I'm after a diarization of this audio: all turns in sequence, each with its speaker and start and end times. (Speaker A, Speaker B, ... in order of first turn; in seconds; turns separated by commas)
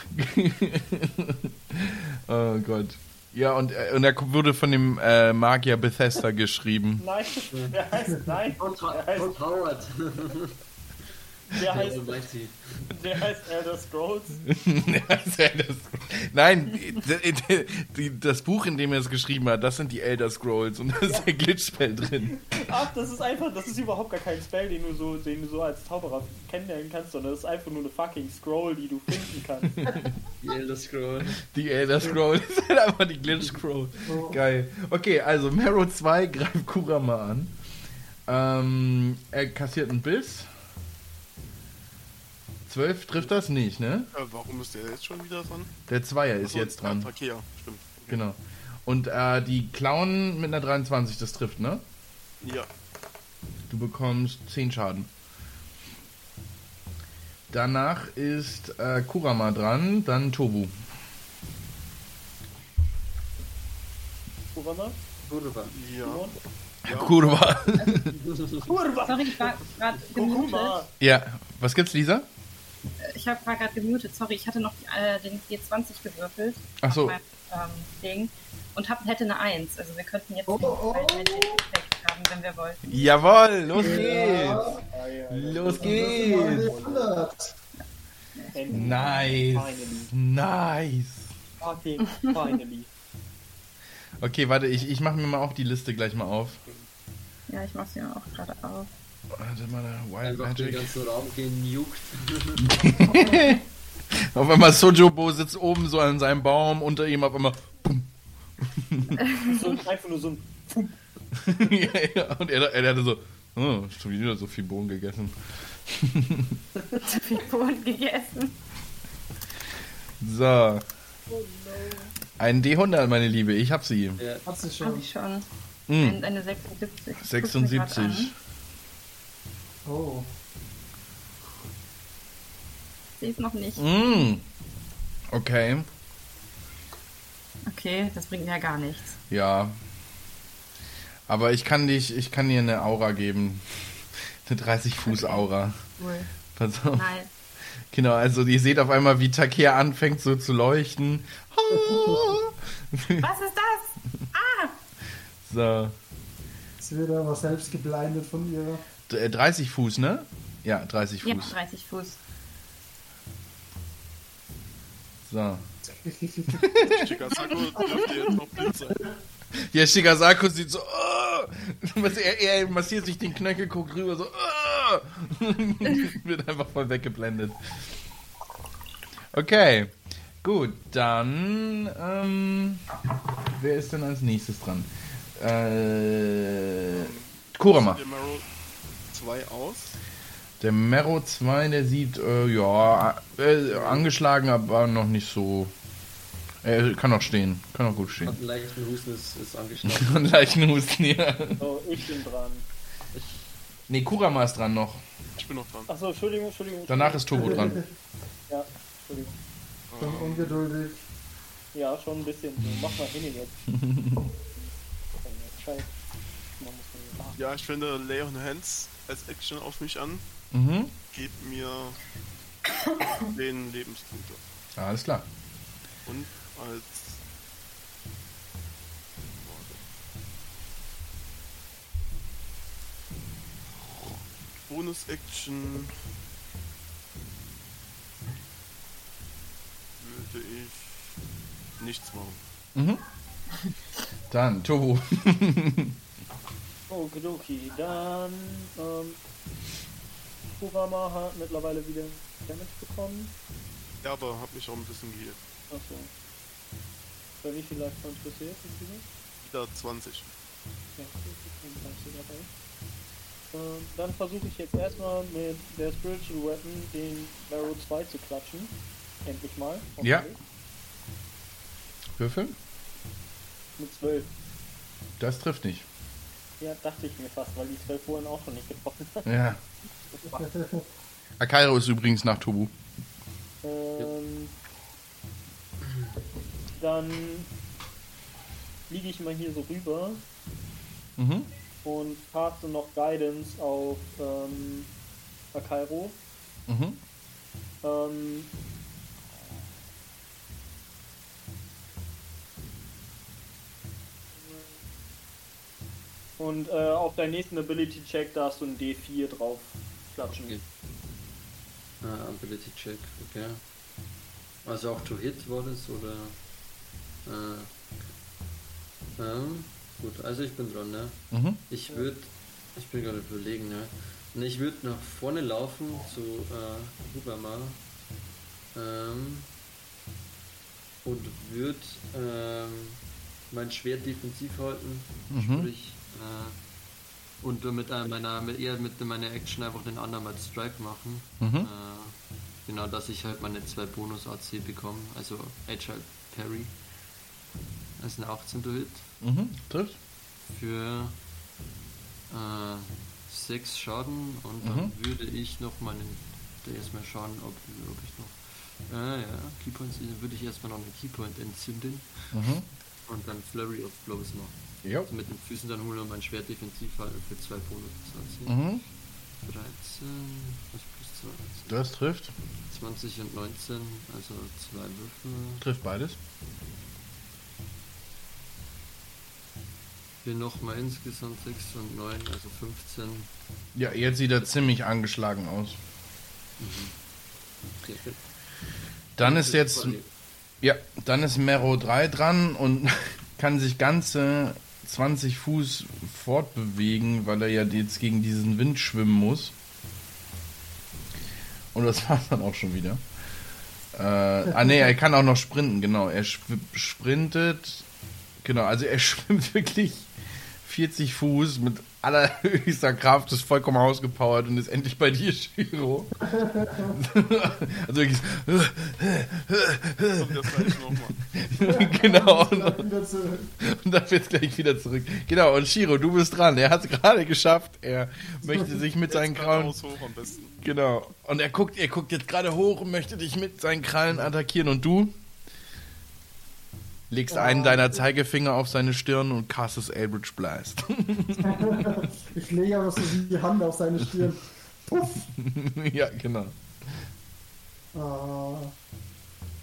Speaker A: 0.1-7.0, Speaker B: 7.0-9.4, Speaker C: 7.5-7.8, Speaker C: 8.6-10.5, Speaker C: 11.5-12.9, Speaker B: 11.5-12.3, Speaker B: 12.9-14.4, Speaker A: 14.5-22.4, Speaker B: 22.3-30.0, Speaker A: 29.6-30.1, Speaker C: 30.4-31.4, Speaker A: 31.2-37.5, Speaker D: 34.0-34.4, Speaker A: 38.3-40.5, Speaker A: 42.7-44.1, Speaker E: 44.1-45.7, Speaker A: 45.9-47.1, Speaker E: 46.4-48.2, Speaker A: 48.1-51.8, Speaker E: 52.4-52.7, Speaker A: 53.7-55.1, Speaker A: 57.5-60.7, Speaker B: 64.5-65.0, Speaker C: 65.3-65.7, Speaker E: 65.6-66.3, Speaker B: 66.0-66.3, Speaker E: 66.8-67.3, Speaker A: 66.8-68.2, Speaker C: 68.2-68.7, Speaker B: 68.6-69.6, Speaker F: 69.0-70.8, Speaker B: 70.1-70.9, Speaker A: 71.0-72.2, Speaker F: 73.0-83.1, Speaker A: 76.8-77.2, Speaker D: 80.5-81.6, Speaker A: 82.8-84.6, Speaker D: 83.8-84.8, Speaker B: 84.9-87.2, Speaker A: 85.3-86.8, Speaker D: 85.8-87.5, Speaker F: 88.4-89.0, Speaker B: 88.5-90.1, Speaker A: 88.7-91.3, Speaker B: 91.6-92.9, Speaker A: 94.2-96.6, Speaker F: 97.5-98.9, Speaker A: 99.3-100.9, Speaker C: 100.2-102.9, Speaker A: 102.7-103.6, Speaker A: 104.1-108.1, Speaker A: 108.6-109.2, Speaker B: 109.4-111.0, Speaker A: 111.4-116.6, Speaker F: 117.0-118.5, Speaker A: 120.2-120.8, Speaker B: 121.3-122.1, Speaker A: 122.4-124.2, Speaker C: 124.2-124.4, Speaker D: 124.5-125.0, Speaker F: 124.8-125.5, Speaker A: 125.9-126.2, Speaker F: 126.0-128.3, Speaker A: 127.2-128.3, Speaker D: 129.8-130.3, Speaker F: 133.2-133.8, Speaker A: 133.8-134.4, Speaker A: 135.3-135.9, Speaker F: 137.7-139.2, Speaker A: 139.3-139.7, Speaker A: 141.3-145.8, Speaker F: 145.1-145.4, Speaker F: 146.0-146.3, Speaker A: 146.5-147.1, Speaker F: 146.9-147.3, Speaker A: 147.9-153.3, Speaker D: 151.7-152.3, Speaker F: 153.2-154.7, Speaker A: 155.4-155.9, Speaker D: 156.8-158.8, Speaker A: 159.1-161.5, Speaker F: 161.2-162.2, Speaker A: 165.2-165.6, Speaker D: 165.8-166.7, Speaker A: 166.5-167.1, Speaker E: 166.8-169.0, Speaker F: 167.4-167.9, Speaker A: 169.6-177.8, Speaker A: 179.3-182.8, Speaker A: 183.5-188.0, Speaker E: 186.9-188.4, Speaker E: 189.1-190.0, Speaker A: 190.6-195.7, Speaker C: 193.7-194.0, Speaker A: 196.6-198.3, Speaker C: 198.2-200.3, Speaker A: 199.8-201.6, Speaker B: 201.6-202.6, Speaker C: 203.1-203.4, Speaker A: 203.9-205.0, Speaker E: 205.4-205.9, Speaker B: 205.9-207.8, Speaker A: 206.9-207.8, Speaker D: 207.4-207.8, Speaker B: 208.5-209.3, Speaker E: 209.9-210.6, Speaker D: 210.0-211.0, Speaker B: 211.7-213.6, Speaker A: 213.8-214.2, Speaker B: 215.2-215.9, Speaker B: 216.6-217.4, Speaker E: 217.4-220.2, Speaker A: 220.5-220.9, Speaker E: 221.1-222.0, Speaker E: 223.2-224.4, Speaker A: 224.8-225.2, Speaker E: 226.1-227.2, Speaker E: 229.2-229.8, Speaker E: 234.7-235.9, Speaker E: 240.0-240.9, Speaker E: 241.8-242.4, Speaker A: 242.7-243.0, Speaker A: 244.3-245.9, Speaker B: 246.9-249.2, Speaker B: 250.6-253.3, Speaker E: 254.0-255.4, Speaker B: 255.7-256.1, Speaker B: 257.4-259.0, Speaker E: 259.4-260.3, Speaker B: 261.0-262.5, Speaker B: 263.5-270.4, Speaker A: 270.0-270.3, Speaker A: 272.2-272.6, Speaker B: 273.8-274.3, Speaker A: 275.2-275.9, Speaker B: 276.6-279.2, Speaker A: 279.2-279.6, Speaker D: 280.2-280.8, Speaker A: 281.4-282.7, Speaker B: 283.6-284.5, Speaker C: 285.8-286.1, Speaker B: 286.7-287.5, Speaker B: 288.9-290.2, Speaker A: 291.2-291.5, Speaker B: 291.8-294.9, Speaker B: 295.5-296.1, Speaker A: 296.7-297.0, Speaker B: 297.8-298.5, Speaker B: 304.3-304.8, Speaker B: 306.4-310.6, Speaker C: 310.3-310.6, Speaker C: 312.0-313.6, Speaker C: 314.6-316.4, Speaker C: 317.2-317.7, Speaker C: 319.2-327.8, Speaker A: 321.3-321.6, Speaker C: 328.7-329.5, Speaker C: 331.0-336.6, Speaker A: 335.3-335.7, Speaker C: 337.4-346.7, Speaker A: 341.4-341.7, Speaker C: 348.0-349.1, Speaker A: 349.2-350.0, Speaker C: 350.5-351.2, Speaker C: 352.3-362.2, Speaker A: 354.6-354.9, Speaker A: 362.3-362.6, Speaker C: 363.1-368.6, Speaker A: 364.8-365.1, Speaker A: 368.4-368.8, Speaker C: 369.4-371.8, Speaker A: 371.7-372.3, Speaker C: 372.7-375.6, Speaker A: 375.6-376.2, Speaker C: 380.2-383.3, Speaker A: 383.7-385.8, Speaker C: 386.6-386.9, Speaker C: 387.8-388.2, Speaker A: 389.2-389.9, Speaker C: 389.2-390.1, Speaker A: 390.6-399.5, Speaker A: 401.7-403.0, Speaker A: 403.9-407.8, Speaker D: 404.4-404.9, Speaker A: 408.4-410.1, Speaker A: 410.6-416.1, Speaker D: 416.2-417.0, Speaker A: 416.9-420.7, Speaker E: 420.1-421.2, Speaker A: 421.4-422.8, Speaker D: 421.6-423.5, Speaker A: 423.6-429.7, Speaker D: 428.4-428.8, Speaker E: 429.1-430.5, Speaker A: 430.6-435.1, Speaker A: 437.1-442.1, Speaker D: 437.3-438.0, Speaker D: 441.4-445.3, Speaker A: 445.4-446.5, Speaker D: 447.9-448.7